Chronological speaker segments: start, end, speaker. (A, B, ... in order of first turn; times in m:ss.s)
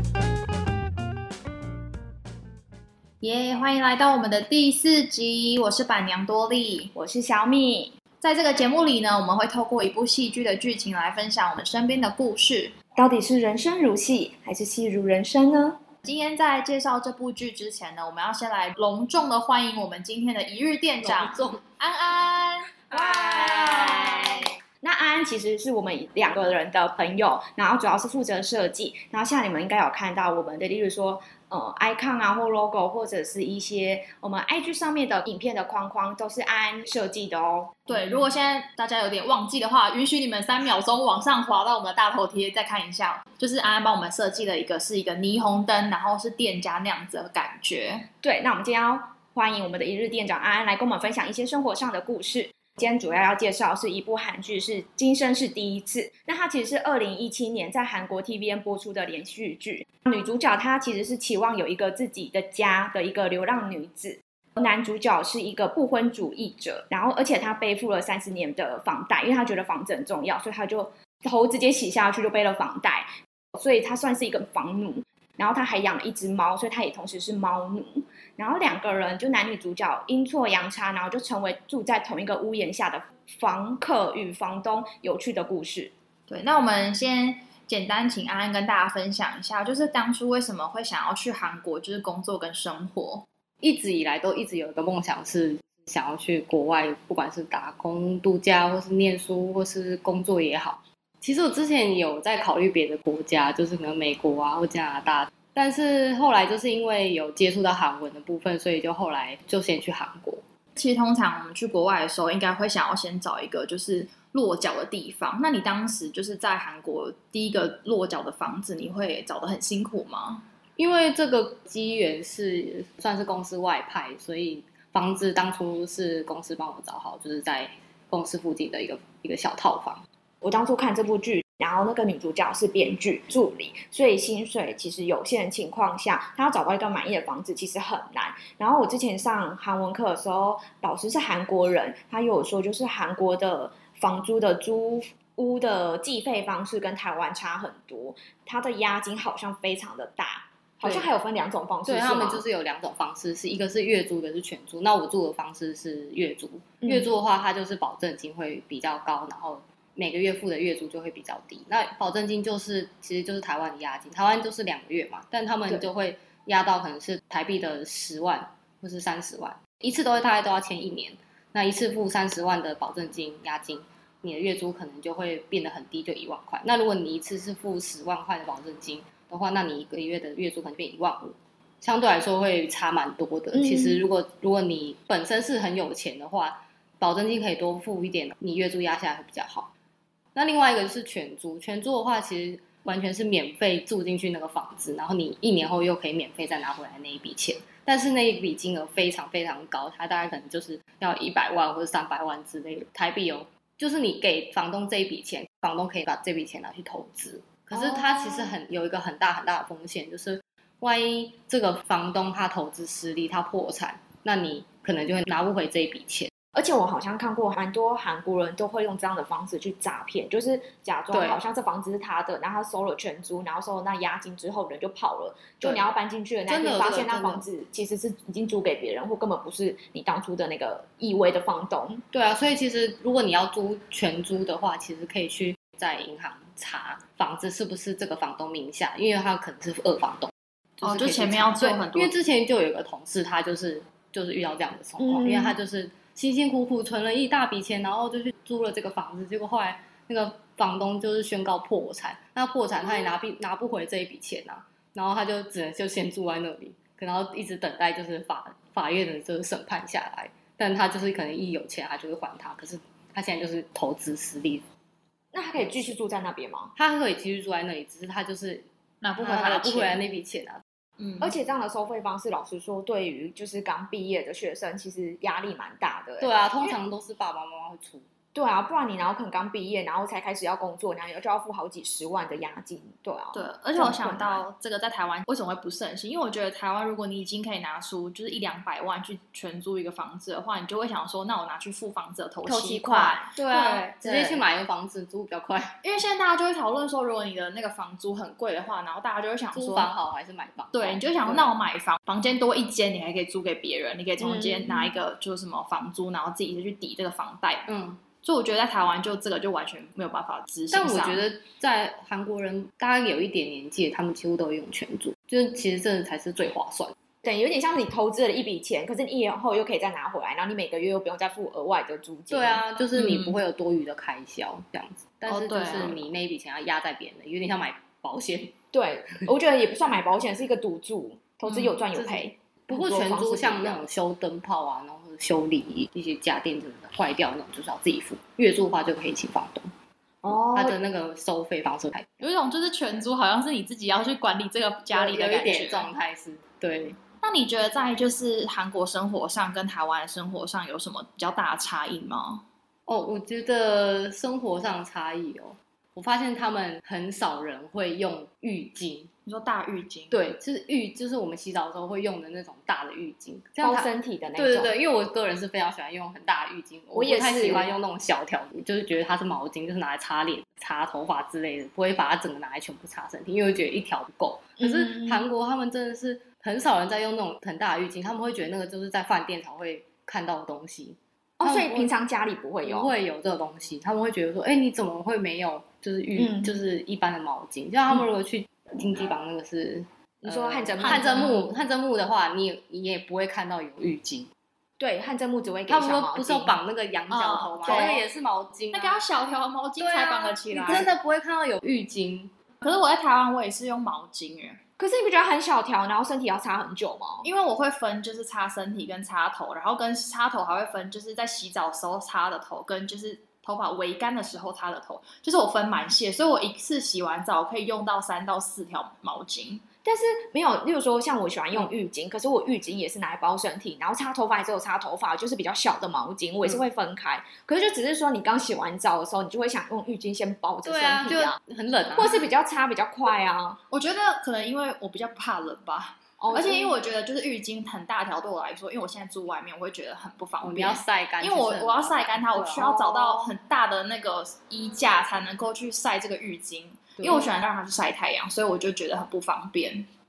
0:03.2-0:06.9 A
0:07.0-0:08.0 B
0:08.2-0:12.8 A
0:13.0-0:15.8 B
0:16.0-0:24.4 A
0:21.0-0:21.6 C
0:22.9-0:38.1 B
0:23.0-0:23.9 C
0:37.9-0:48.1 A
0:48.2-1:25.9 B
1:26.3-1:33.2 A
1:33.6-1:50.4 C
1:50.8-2:00.4 A
2:00.8-2:10.0 C
2:10.4-2:32.4 B
2:30.8-2:31.1 C
2:31.8-3:09.7 C
3:03.6-3:03.9 B
3:10.3-3:36.3 C
3:27.7-3:28.6 B
3:36.5-3:52.0 B
3:41.1-3:41.4 C
3:46.5-3:47.4 C
3:52.1-4:24.6 C
4:00.8-4:02.1 A
4:05.0-4:05.6 B
4:25.3-4:26.7 B
4:25.6-4:26.0 C
4:26.8-4:28.6 C
4:29.0-4:30.0 A
4:29.2-4:30.6 C
4:31.0-4:31.2 A
4:31.2-4:36.8 B
4:36.2-4:38.1 C
4:38.3-4:44.4 B
4:43.3-4:53.8 A
4:52.4-4:53.4 B
4:53.4-4:55.8 C
4:54.0-4:54.4 B
4:55.8-4:59.9 A
4:59.6-5:01.5 C
5:00.7-5:07.6 A
5:04.2-5:04.9 B
5:07.7-5:08.0 C
5:08.2-5:11.2 A
5:10.7-5:16.9 C
5:17.2-5:22.6 B
5:22.3-5:28.6 C
5:22.9-5:23.3 A
5:25.3-5:26.0 A
5:28.7-5:33.8 B
5:31.9-5:39.7 C
5:40.2-5:40.8 B
5:40.3-5:42.2 C
5:42.2-5:45.9 A
5:44.9-5:47.0 C
5:47.2-5:52.4 A
5:52.9-5:59.1 C
5:59.2-6:00.1 A
6:00.1-6:21.9 C
6:03.6-6:04.7 B
6:06.9-6:07.7 B
6:14.6-6:15.2 B
6:21.4-6:22.9 B
6:22.6-6:34.3 C
6:26.2-6:26.5 B
6:30.2-6:31.1 B
6:30.8-6:31.5 A
6:34.8-6:36.6 B
6:35.7-6:39.0 C
6:37.1-6:38.0 A
6:37.6-6:38.0 B
6:38.7-6:40.9 A
6:39.8-6:42.3 C
6:40.6-6:40.9 B
6:42.6-6:44.6 A
6:44.8-6:47.3 B
6:47.2-6:59.6 A
6:59.8-7:11.4 B
7:10.6-7:12.3 C
7:11.9-7:13.6 B
7:13.7-7:29.9 A
7:16.2-7:16.7 B
7:20.4-7:22.7 C
7:22.6-7:23.2 B
7:27.0-7:27.3 C